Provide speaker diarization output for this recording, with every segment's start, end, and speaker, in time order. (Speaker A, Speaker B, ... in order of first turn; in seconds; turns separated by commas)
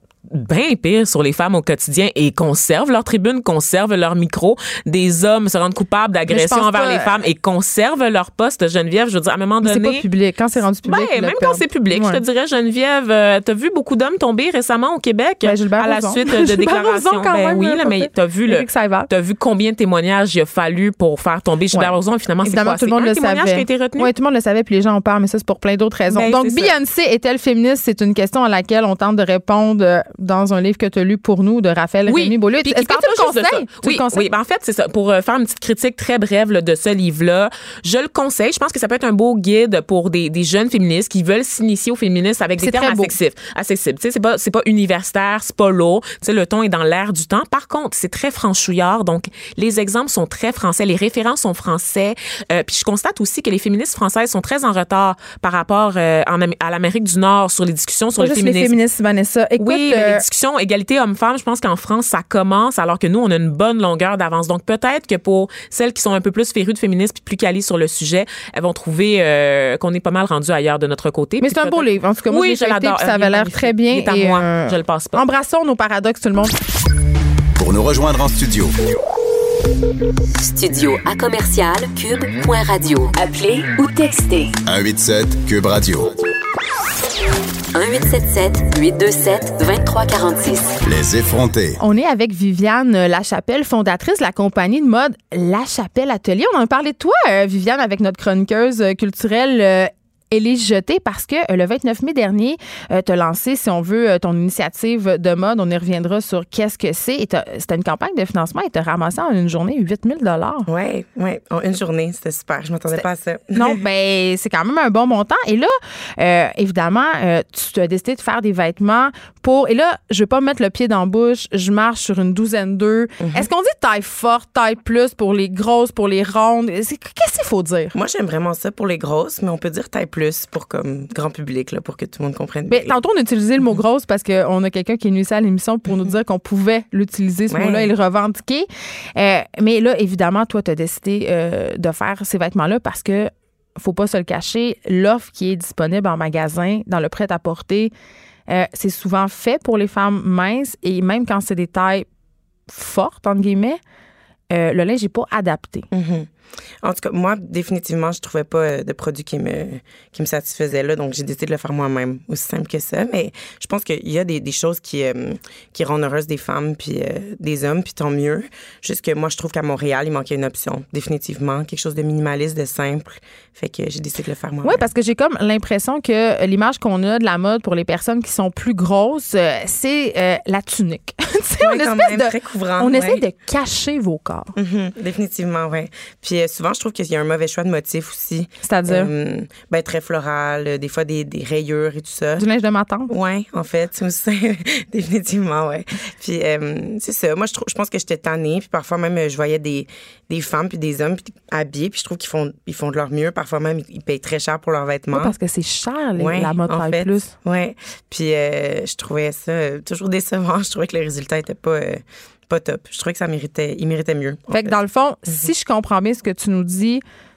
Speaker A: 0.3-10.0, Speaker B: 6.3-7.2, Speaker B: 9.6-12.2, Speaker A: 10.8-24.1, Speaker B: 15.4-19.1, Speaker B: 22.4-34.3, Speaker A: 26.1-26.7, Speaker A: 32.1-58.8, Speaker B: 42.6-43.1, Speaker B: 58.2-60.2, Speaker A: 59.6-75.2, Speaker B: 71.4-76.5, Speaker C: 77.6-78.7, Speaker D: 80.4-84.6, Speaker C: 84.7-86.1, Speaker D: 87.7-90.8, Speaker C: 90.8-91.8, Speaker B: 91.8-110.7, Speaker E: 110.7-113.8, Speaker B: 112.9-128.0, Speaker E: 123.2-123.5, Speaker E: 127.9-132.9, Speaker B: 132.7-147.9, Speaker E: 137.5-137.9, Speaker B: 148.5-152.1, Speaker B: 152.7-153.8, Speaker B: 154.5-155.9, Speaker E: 155.9-156.3, Speaker E: 156.8-174.8, Speaker B: 174.6-184.5, Speaker E: 181.6-183.2, Speaker E: 184.6-192.4, Speaker B: 188.6-189.1, Speaker B: 192.4-193.1, Speaker E: 193.1-205.3, Speaker B: 205.1-207.3, Speaker E: 206.2-214.8, Speaker B: 214.5-217.0